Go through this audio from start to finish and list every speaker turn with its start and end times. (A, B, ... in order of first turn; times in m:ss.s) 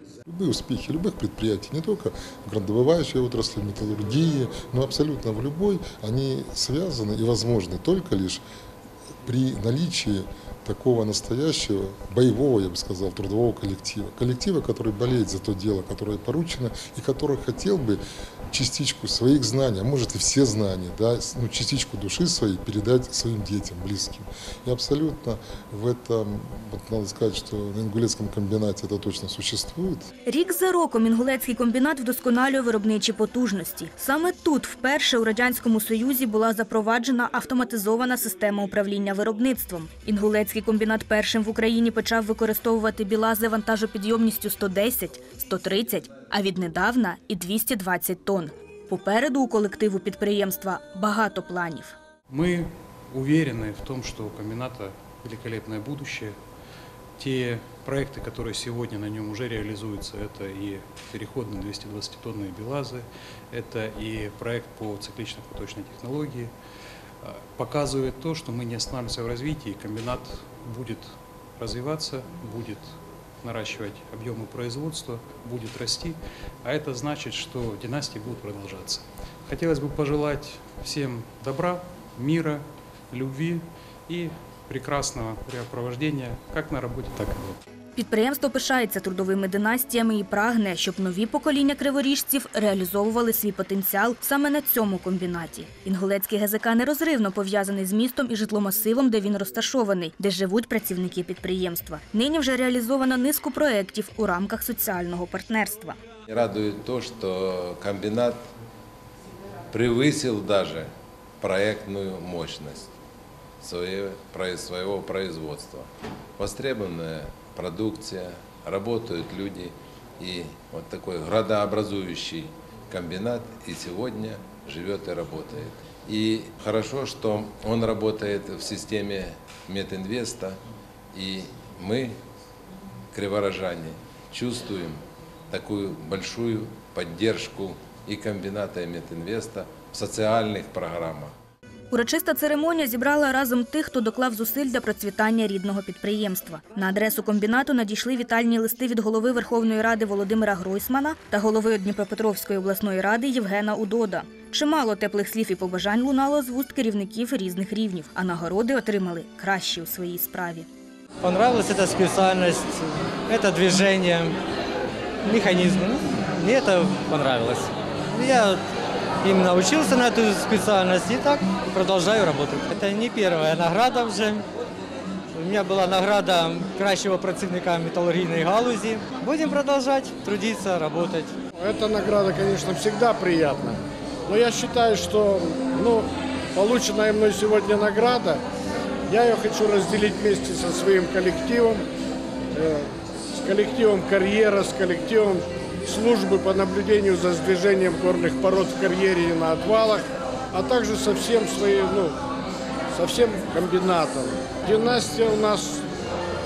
0:00.3-0:08.4 A
0:09.2-0:18.0 A
0:18.5-0:30.1 A
0:30.2-0:52.0 B
0:52.3-0:56.4 C
0:57.2-1:06.5 C
1:07.2-1:27.6 C
1:28.0-1:46.0 B
1:46.3-1:48.4 D
1:49.7-1:52.9 D
1:53.6-1:55.9 D
1:56.4-2:10.6 D
2:11.1-2:12.2 D
2:13.1-2:21.3 D
2:21.9-2:40.7 B
2:41.2-2:44.4 E
2:45.2-2:48.6 E
2:49.2-2:54.4 E
2:55.3-3:01.3 E
3:01.6-3:08.4 F
3:09.1-3:11.8 F
3:12.5-3:22.2 F
3:22.9-3:25.8 F